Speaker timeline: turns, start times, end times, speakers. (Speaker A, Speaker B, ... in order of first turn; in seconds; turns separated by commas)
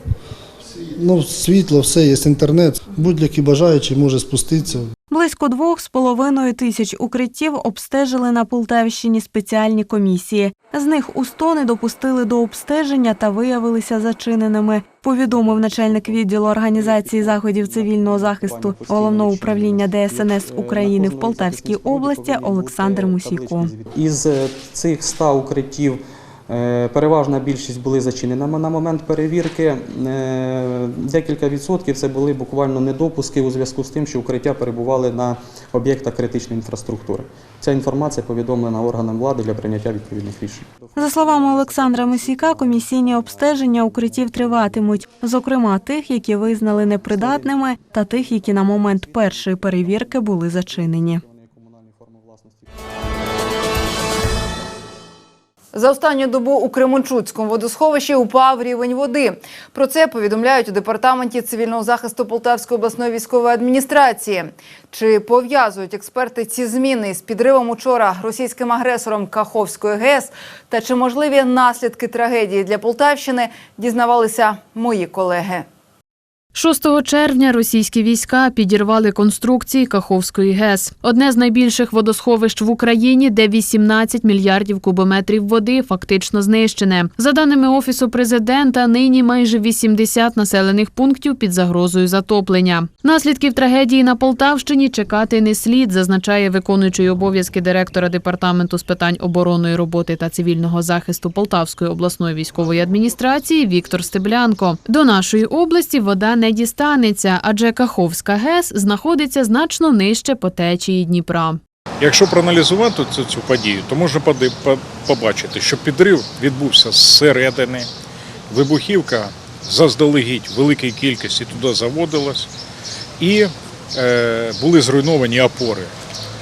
Speaker A: 0.9-4.9, Speaker B: 5.1-23.7, Speaker C: 15.3-44.8, Speaker B: 41.0-51.2, Speaker C: 47.1-47.5, Speaker C: 48.1-52.6, Speaker D: 55.7-75.7, Speaker E: 76.5-111.6, Speaker F: 112.0-117.9, Speaker F: 118.5-122.5, Speaker F: 123.2-125.9